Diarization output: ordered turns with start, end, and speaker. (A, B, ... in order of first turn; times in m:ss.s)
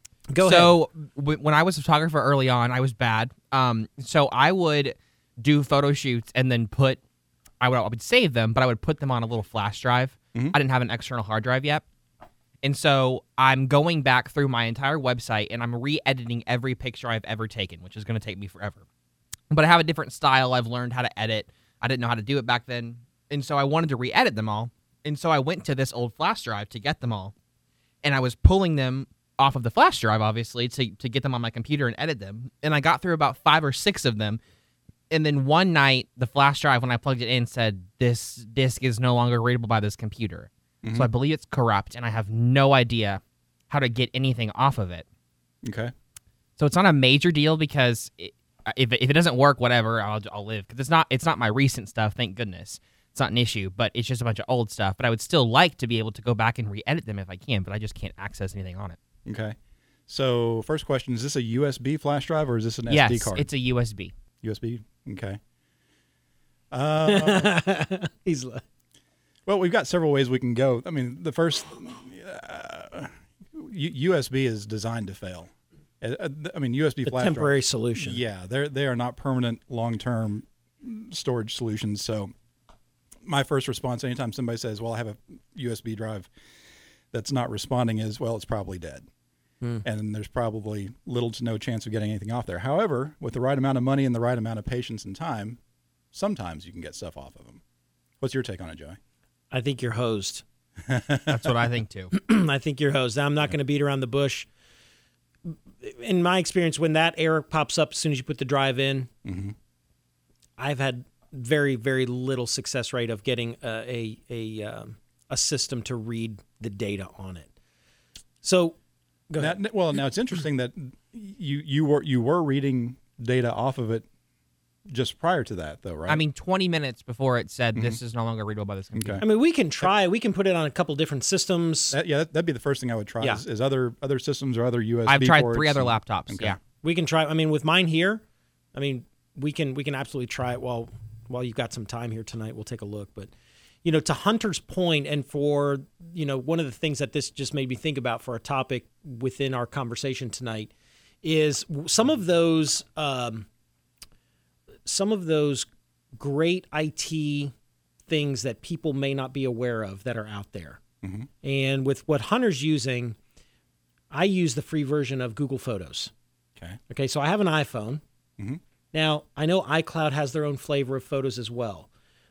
0:00.3-0:00.8 A
0:00.4-0:07.0 B
0:07.6-0:11.8 B
0:12.6-0:18.8 B
0:19.5-0:27.3 B
0:28.0-0:34.4 B
0:35.1-0:45.0 B
0:40.8-0:41.1 C
0:45.6-0:45.9 C
0:46.6-0:59.0 B
0:59.2-0:59.6 C
1:00.1-1:03.5 C
1:02.9-1:04.1 B
1:04.4-1:05.4 C
1:06.7-1:07.5 C
1:07.1-1:08.6 A
1:09.5-1:22.3 C
1:17.1-1:18.2 A
1:23.2-1:26.3 C
1:27.1-1:29.1 C
1:29.8-1:35.6 C
1:36.1-1:37.6 C
1:38.2-1:39.0 C
1:39.5-1:40.4 A
1:40.8-1:41.5 C
1:41.3-1:42.1 B
1:42.1-1:44.5 A
1:45.5-1:49.1 A
1:49.2-1:49.5 C
1:50.6-1:57.5 A
1:58.4-1:58.8 A
1:59.3-1:59.6 A
1:59.4-2:04.1 C
2:04.9-2:06.2 C
2:06.1-2:09.2 B
2:07.8-2:08.0 C
2:09.0-2:09.2 C
2:09.2-2:12.0 A
2:11.9-2:16.6 C
2:15.1-2:16.6 B
2:16.8-2:18.2 A
2:18.7-2:23.3 A
2:23.8-2:30.7 A
2:31.2-2:33.5 A
2:34.9-2:37.5 A
2:38.1-2:40.8 A
2:41.0-2:41.3 C
2:41.4-2:43.2 A
2:44.1-2:46.1 A
2:46.9-2:48.0 A
2:48.9-2:51.9 A